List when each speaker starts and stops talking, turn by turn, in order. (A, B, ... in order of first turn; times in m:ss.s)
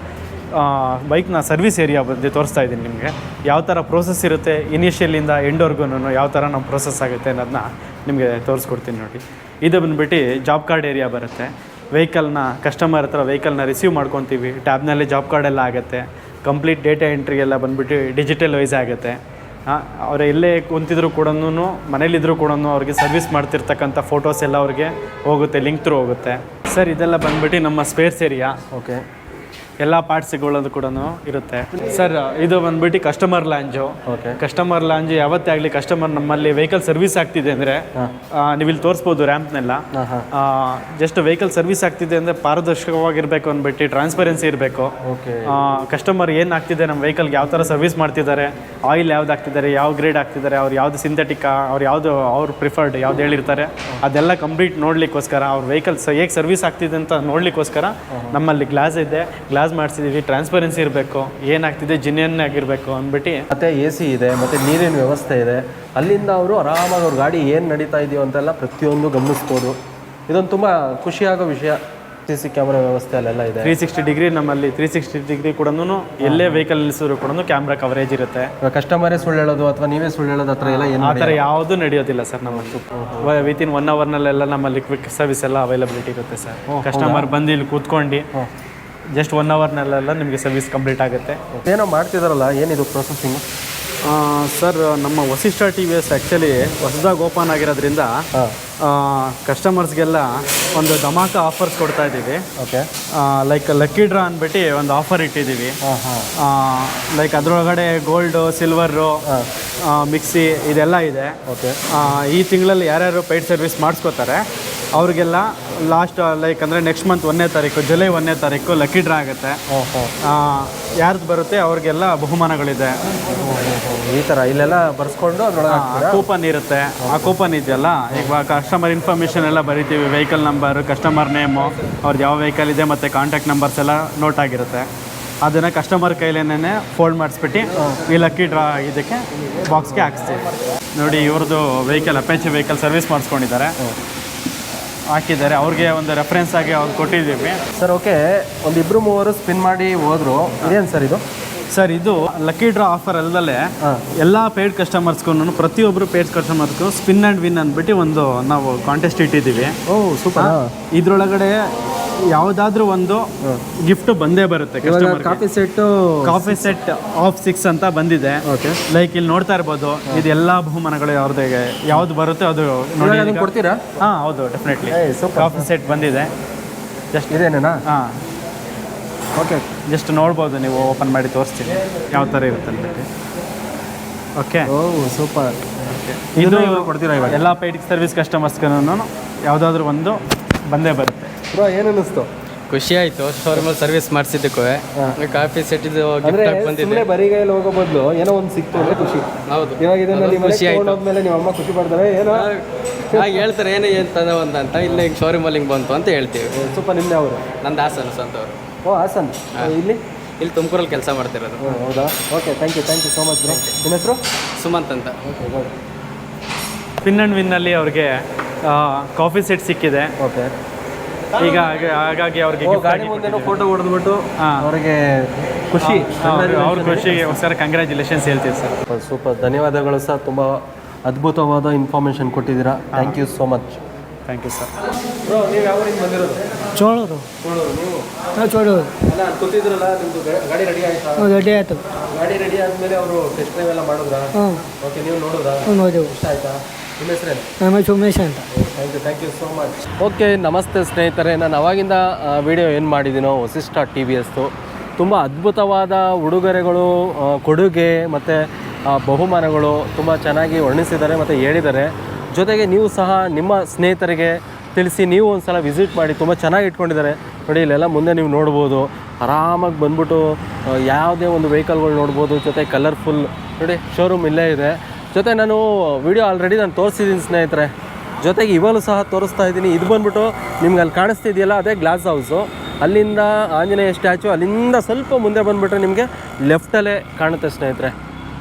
0:00.5-0:28.6 A
0:28.7-0:29.0 B
0:29.8-0:44.9 A
0:34.1-0:34.4 B
0:39.9-0:40.3 B
0:45.0-0:45.5 B
0:45.4-1:03.4 A
0:58.1-0:58.4 B
1:03.5-1:09.8 B
1:10.3-1:13.7 B
1:13.6-1:18.5 A
1:16.2-1:16.6 B
1:18.6-1:21.4 B
1:20.6-1:28.2 A
1:22.5-1:23.4 B
1:26.7-1:27.3 B
1:29.1-1:31.4 A
1:31.5-1:33.4 B
1:34.0-1:38.1 A
1:38.8-1:42.4 A
1:42.6-1:42.9 B
1:43.1-1:45.8 A
1:45.8-1:46.3 B
1:46.4-1:49.2 A
1:49.8-1:51.4 A
1:51.5-1:52.2 B
1:51.9-1:54.4 A
1:54.9-1:59.6 A
1:59.7-2:00.1 B
2:00.2-2:03.0 A
2:03.3-2:06.2 B
2:05.7-2:14.9 A
2:07.0-2:07.3 B
2:15.4-2:23.8 A
2:17.8-2:18.0 B
2:25.1-2:27.6 A
2:27.8-2:31.2 B
2:31.7-2:39.8 A
2:39.9-2:40.7 B
2:40.4-2:41.7 A
2:42.3-2:43.3 A
2:43.8-2:45.4 A
2:44.8-2:46.7 B
2:46.2-2:53.5 A
2:48.4-2:48.8 B
2:53.0-2:54.0 B
2:54.0-2:56.3 A
2:54.8-2:55.7 B
2:57.1-2:58.2 A
2:57.3-2:57.8 B
2:59.4-2:59.6 B
2:59.8-3:03.1 A
3:04.4-3:04.7 A
3:04.6-3:07.4 B
3:06.4-3:11.3 A
3:11.5-3:12.3 B
3:12.7-3:17.1 C
3:16.2-3:22.5 B
3:19.4-3:21.0 C
3:22.3-3:26.7 C
3:23.1-3:23.4 B
3:26.5-3:27.4 B
3:27.6-3:28.5 C
3:28.8-3:30.0 B
3:30.4-3:31.8 C
3:31.6-3:34.2 B
3:34.6-3:35.2 C
3:35.2-3:35.7 B
3:37.0-3:40.1 A
3:40.2-3:40.5 B
3:41.4-3:43.5 A
3:42.6-3:47.4 B
3:44.4-3:44.7 A
3:45.8-3:48.8 A
3:48.9-3:53.8 B
3:54.3-3:54.7 A
3:55.2-3:56.6 B
3:56.7-3:57.2 D
3:57.4-3:58.1 B
3:58.4-3:58.9 D
3:59.1-4:01.3 B
4:01.2-4:01.8 D
4:02.1-4:07.5 B
4:04.3-4:04.6 D
4:05.6-4:06.2 D
4:07.6-4:08.4 D
4:08.5-4:47.9 B